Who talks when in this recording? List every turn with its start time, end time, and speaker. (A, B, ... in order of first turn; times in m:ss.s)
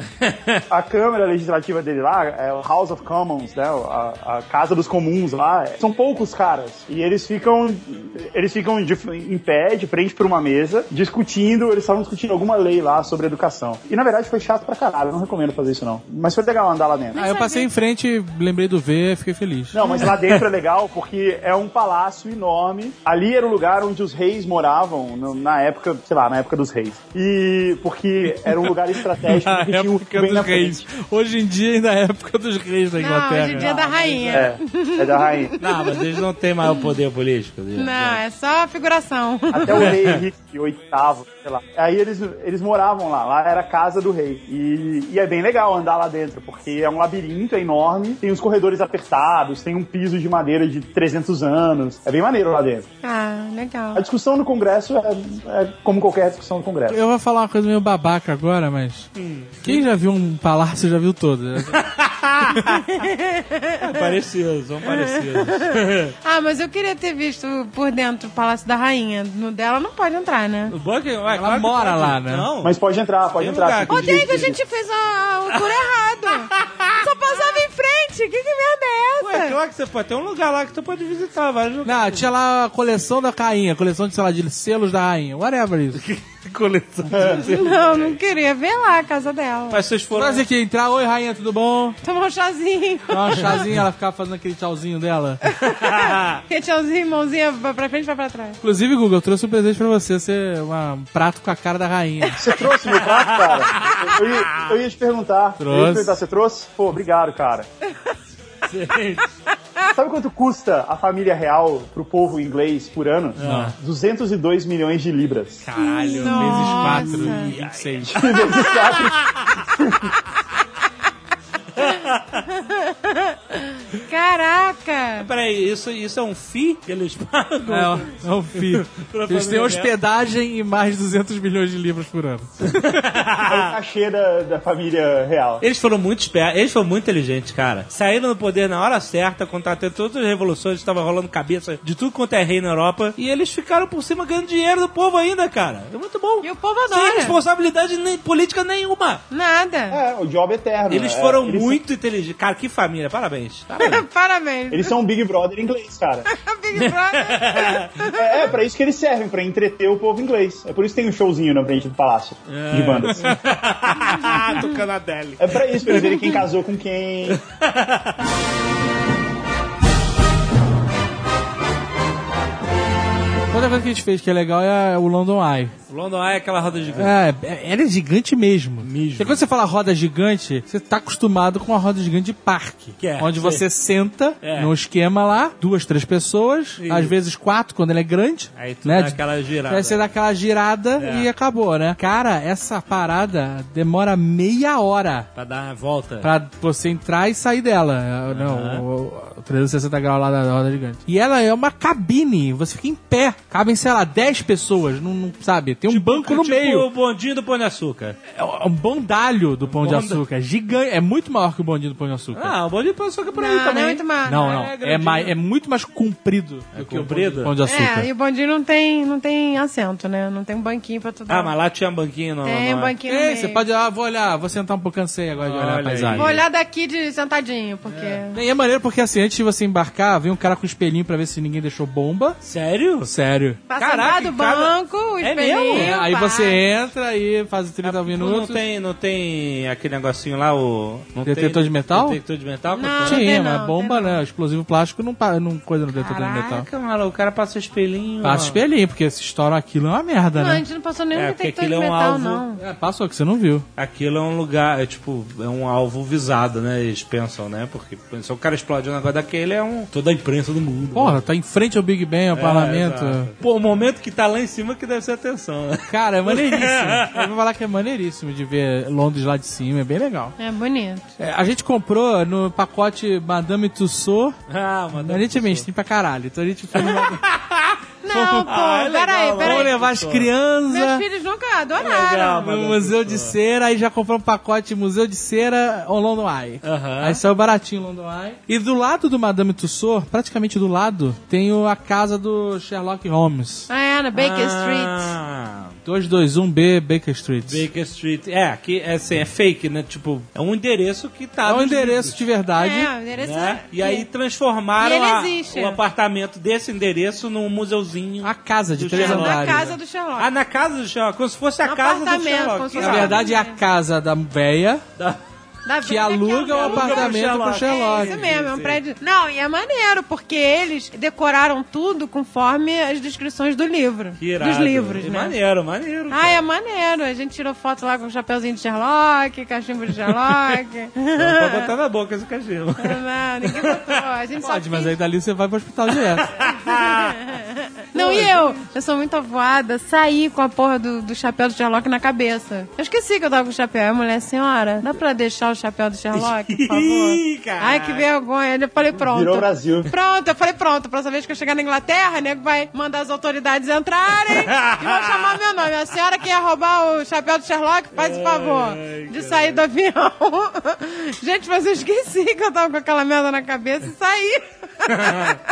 0:00.2-0:00.6 A
0:00.7-0:17.2 B
0:17.1-0:17.7 C
0:17.2-0:19.8 D
0:19.7-0:30.9 B
0:19.8-0:20.1 C
0:20.1-0:20.4 A
0:28.5-0:33.7 D
0:33.0-0:36.1 C
0:33.4-0:34.5 A
0:34.3-0:35.5 B
0:35.6-0:38.2 A
0:37.8-0:40.0 C
0:39.5-0:52.9 B
0:39.7-0:40.2 A
0:53.0-0:54.0 C
0:54.0-0:57.0 B
0:56.9-0:59.1 D
0:59.2-0:59.8 A
0:59.6-1:01.8 D
1:01.7-1:02.7 A
1:02.6-1:04.1 C
1:03.8-1:06.1 A
1:04.8-1:10.8 C
1:10.7-1:12.8 A
1:11.3-1:12.5 D
1:12.6-1:14.6 B
1:13.4-1:14.6 A
1:13.9-1:19.6 C
1:15.5-1:17.6 A
1:19.2-1:22.3 A
1:21.8-1:26.0 D
1:26.0-1:28.2 A
1:27.1-1:27.5 B
1:27.4-1:29.8 C
1:29.7-1:30.4 A
1:30.1-1:32.0 D
1:32.0-1:33.7 C
1:33.1-1:35.4 D
1:35.5-1:38.6 C
1:35.6-1:36.4 A
1:38.6-1:42.4 D
1:42.4-1:47.7 B
1:42.9-1:44.8 A
1:45.6-1:46.2 D
1:48.6-1:49.3 A
1:49.9-1:55.7 B
1:53.4-1:53.7 A
1:53.4-1:53.7 D
1:55.6-1:58.2 D
1:55.8-1:57.5 C
1:56.3-1:59.5 A
1:58.0-2:00.2 B
2:01.8-2:02.4 A
2:02.5-2:05.3 C
2:05.2-2:09.9 A
2:07.7-2:13.0 D
2:12.8-2:13.7 A
2:13.4-2:15.6 B
2:15.6-2:29.2 A
2:26.4-2:27.4 C
2:29.3-2:30.0 C
2:29.9-2:31.8 B
2:30.9-2:34.0 A
2:33.8-2:34.9 C
2:34.7-2:36.3 B
2:36.3-2:38.5 C
2:36.7-2:37.9 A
2:38.1-2:43.3 B
2:42.5-2:46.0 A
2:44.3-2:44.7 C
2:45.4-2:47.4 B
2:46.1-2:46.4 C
2:47.3-2:48.2 A
2:53.5-2:55.7 D
2:55.9-2:57.2 A
2:57.0-3:15.3 D
2:58.8-2:59.4 A
3:03.0-3:03.6 A
3:04.4-3:04.7 A
3:06.8-3:07.2 A
3:08.6-3:10.1 A
3:11.0-3:11.3 A
3:15.4-3:16.3 A
3:16.2-3:26.9 D
3:18.3-3:18.8 A
3:25.9-3:28.2 A
3:28.4-3:32.6 D
3:29.7-3:30.2 A
3:32.3-3:35.4 A
3:33.3-3:34.6 C
3:34.2-3:38.1 D
3:36.8-3:37.5 A
3:37.7-3:41.5 C
3:41.3-3:43.0 A
3:42.4-3:43.6 C
3:43.1-3:46.3 D
3:45.4-3:46.4 A
3:46.2-3:48.4 C
3:48.3-3:52.4 D
3:52.4-3:53.1 A
3:53.0-3:53.6 D
3:53.7-3:56.6 C
3:53.8-3:56.0 A
3:55.7-3:58.6 D
3:57.8-4:03.4 A
4:01.2-4:02.2 D
4:02.7-4:04.2 C
4:03.1-4:06.7 D
4:06.0-4:08.6 A
4:08.2-4:10.6 D
4:10.4-4:12.6 C
4:11.1-4:12.4 A
4:12.6-4:13.6 D
4:13.8-4:21.2 A
4:20.9-4:23.3 D
4:22.3-4:27.3 A
4:25.9-4:30.4 D
4:30.4-4:31.1 C
4:31.2-4:34.4 D
4:34.5-4:35.7 A
4:35.0-4:37.2 D
4:36.8-4:37.8 A
4:38.0-4:39.8 C
4:38.1-4:38.5 D
4:38.3-4:40.3 A
4:39.4-4:41.0 D
4:40.7-4:42.6 C
4:41.8-4:43.4 A
4:42.4-4:53.7 D
4:46.6-4:47.2 A
4:53.7-4:55.1 C
4:54.1-4:55.8 A
4:55.8-4:57.6 D
4:57.5-5:02.2 A
5:01.4-5:02.9 D
5:02.6-5:04.1 C
5:03.2-5:13.2 A
5:04.8-5:05.8 C
5:08.2-5:09.7 D
5:08.9-5:10.3 C
5:11.6-5:13.6 C
5:12.8-5:14.8 D
5:15.7-5:25.4 C
5:15.8-5:18.2 D
5:16.5-5:18.8 A
5:24.2-5:26.4 A
5:26.1-5:31.7 C
5:31.2-5:34.0 A
5:32.8-5:35.0 C
5:34.4-5:36.3 D
5:36.1-5:37.2 A
5:36.5-6:05.4 C
5:38.0-5:38.5 A
5:46.1-5:48.1 A
5:49.0-5:49.9 B
5:54.3-5:55.4 A
5:57.9-5:59.6 A
6:04.9-6:05.4 A